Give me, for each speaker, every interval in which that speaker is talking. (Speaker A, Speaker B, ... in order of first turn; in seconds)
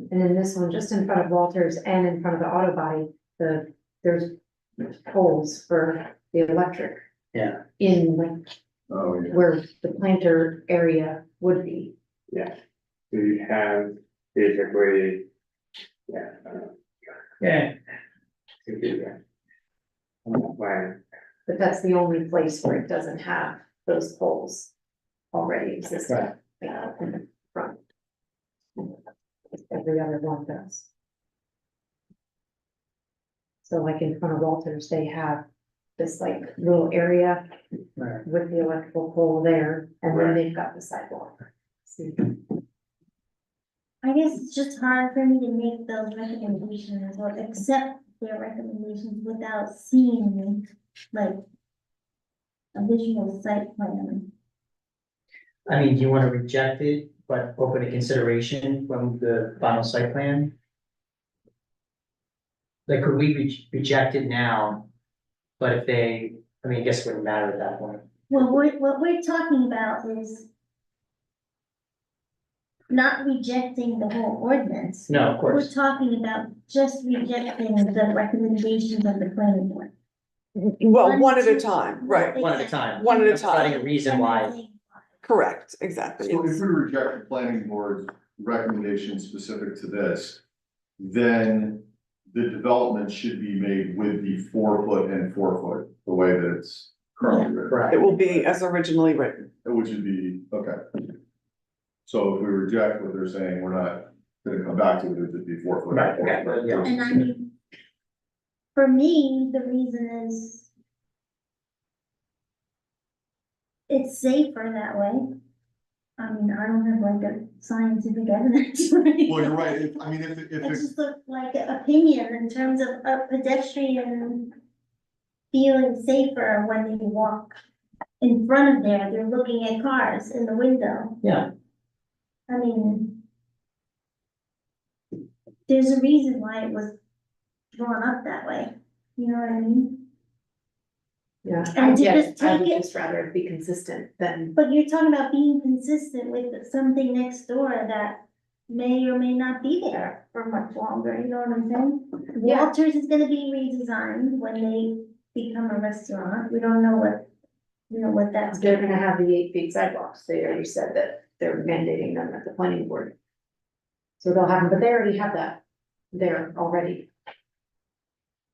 Speaker A: 0.1-7.0, 7.8-8.5, 9.3-11.9, 21.5-24.7, 25.3-27.8, 29.7-30.9, 33.6-35.4, 36.0-37.4, 38.2-42.4, 141.4-144.6, 152.4-152.7, 158.5-163.2, 164.2-165.6, 166.1-167.1
Speaker B: 7.3-7.6, 17.4-17.7, 38.0-38.2, 55.7-60.5, 62.9-64.8, 65.6-68.1, 75.1-75.7, 82.3-84.5, 97.7-98.0, 105.9-106.9
Speaker C: 8.9-9.4, 86.2-90.4, 91.0-98.5, 99.6-101.0, 102.0-107.2, 119.3-120.8
Speaker D: 13.1-15.2, 16.1-16.5, 18.7-19.1, 20.3-20.9
Speaker E: 44.0-51.4, 52.7-54.3, 68.3-70.5, 72.9-79.9, 81.0-85.0, 97.2-97.5, 106.8-107.5, 108.7-110.7, 113.9-115.3, 116.2-119.9, 120.6-124.5, 125.5-127.5, 128.2-131.2, 132.5-133.2, 135.7-136.9, 137.7-140.1, 141.7-142.8, 144.6-157.3, 157.9-158.9
Speaker F: 80.5-82.4, 83.0-83.8, 85.2-86.6, 97.9-99.5